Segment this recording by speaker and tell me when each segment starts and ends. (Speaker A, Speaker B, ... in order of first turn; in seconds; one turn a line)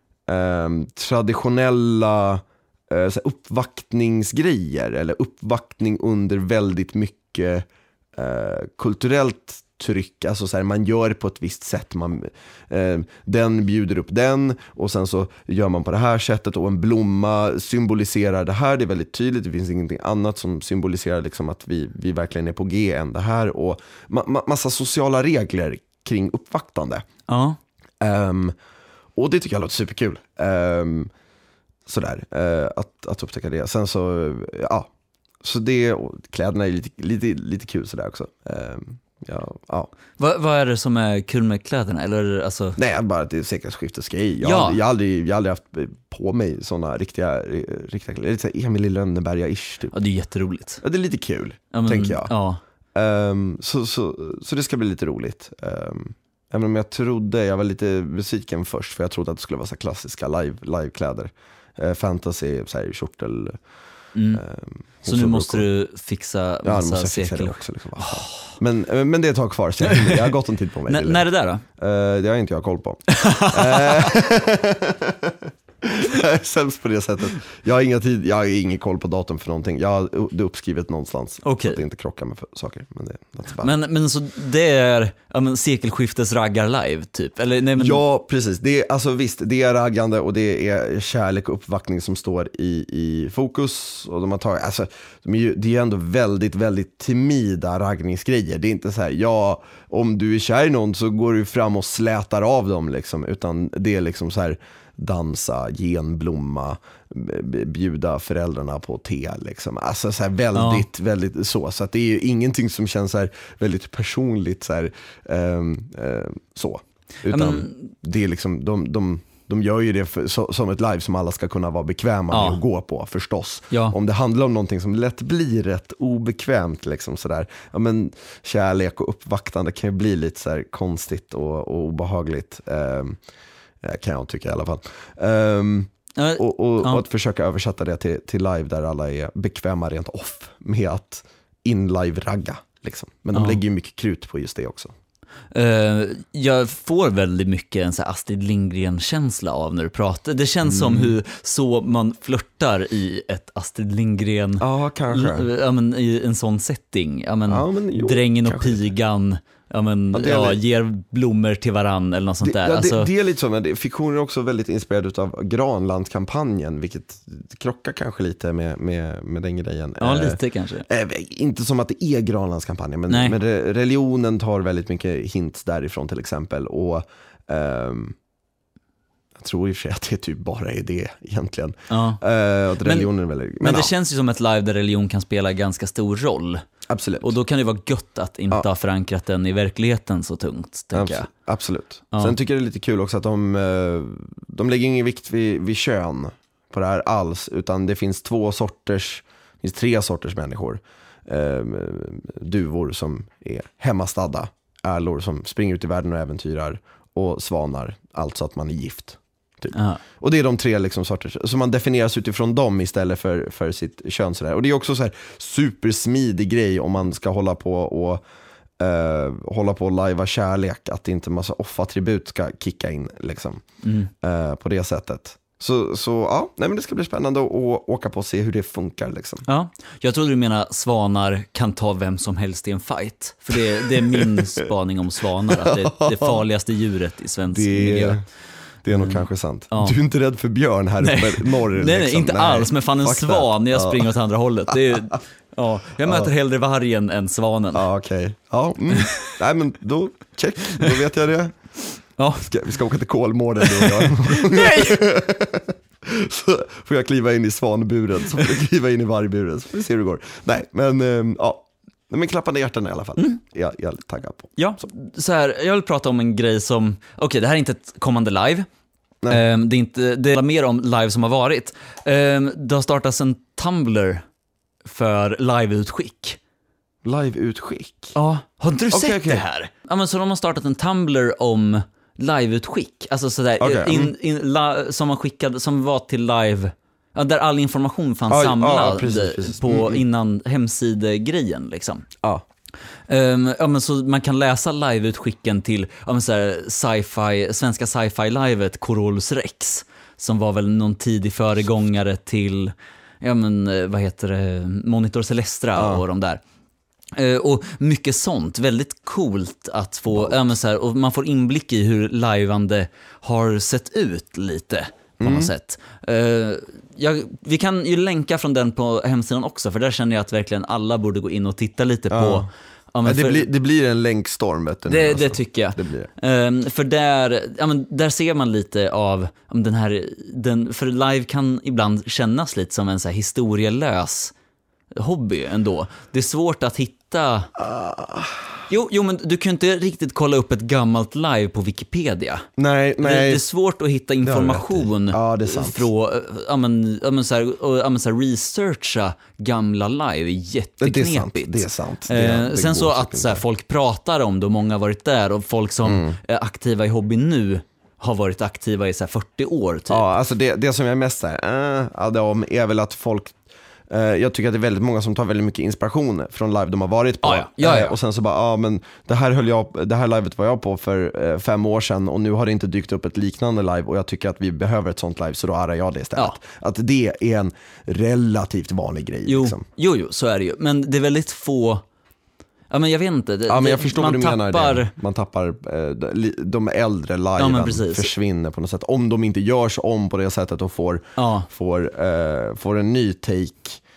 Speaker A: 0.3-27.1
Speaker B: 27.3-27.6
Speaker A: 28.0-28.5
Speaker A: 29.1-31.1
Speaker A: 31.9-34.9
Speaker A: 35.4-39.9
Speaker B: 40.2-42.8
Speaker A: 42.8-49.9
Speaker B: 44.4-44.8
Speaker B: 49.9-50.8
Speaker A: 50.8-52.3
Speaker B: 51.7-52.6
Speaker A: 52.9-63.6
Speaker B: 64.1-64.4
Speaker A: 64.3-65.7
Speaker B: 65.0-68.5
Speaker A: 66.6-71.2
Speaker B: 69.8-70.3
Speaker B: 70.9-71.6
Speaker A: 71.8-83.7
Speaker B: 73.1-74.2
Speaker B: 81.4-81.8
Speaker B: 83.6-88.0
Speaker A: 87.8-133.2
Speaker B: 110.5-110.8
Speaker B: 117.3-117.9
Speaker B: 122.3-122.6
Speaker A: 133.8-144.9
Speaker B: 136.2-137.0
Speaker B: 145.5-163.1
Speaker A: 150.6-151.1
Speaker A: 154.6-155.5
Speaker A: 157.5-158.9
Speaker A: 160.1-160.6
Speaker A: 162.4-178.2
Speaker B: 170.0-170.8
Speaker B: 173.1-173.3
Speaker A: 179.3-183.9
Speaker B: 181.9-182.2
Speaker B: 182.8-183.1
Speaker B: 183.6-186.6
Speaker A: 186.9-187.3
Speaker B: 187.2-191.3
Speaker A: 190.9-218.2
Speaker B: 209.7-210.0
Speaker A: 218.8-223.6
Speaker B: 223.8-224.1
Speaker A: 224.2-229.4
Speaker B: 229.4-238.2
Speaker A: 233.9-234.6
Speaker A: 235.5-236.4
Speaker A: 237.5-238.2
Speaker A: 238.8-244.1
Speaker B: 238.9-239.9
Speaker B: 241.0-247.8
Speaker A: 246.1-246.3
Speaker A: 247.7-251.6
Speaker B: 252.2-252.5
Speaker A: 252.4-264.6
Speaker B: 253.6-255.0
Speaker B: 264.6-268.7
Speaker B: 269.3-274.2
Speaker B: 274.8-276.4
Speaker A: 277.0-278.1
Speaker B: 278.1-292.0
Speaker A: 278.9-279.4
Speaker A: 283.6-284.1
Speaker A: 288.3-290.0
Speaker B: 293.1-306.4
Speaker A: 305.8-306.0
Speaker B: 307.1-323.4
Speaker A: 315.2-315.5
Speaker A: 322.1-322.5
Speaker A: 323.0-326.1
Speaker B: 324.9-334.3
Speaker B: 334.9-337.5
Speaker A: 337.6-338.6
Speaker B: 338.7-342.5
Speaker A: 342.6-343.4
Speaker B: 343.0-360.0
Speaker A: 344.2-345.9
Speaker A: 350.8-353.4
Speaker A: 355.8-356.2
Speaker A: 359.9-363.4
Speaker A: 363.9-379.6
Speaker B: 367.2-367.9
Speaker B: 379.2-381.8
Speaker B: 382.7-384.9
Speaker A: 383.5-393.8
Speaker B: 387.4-388.1
Speaker B: 391.2-391.5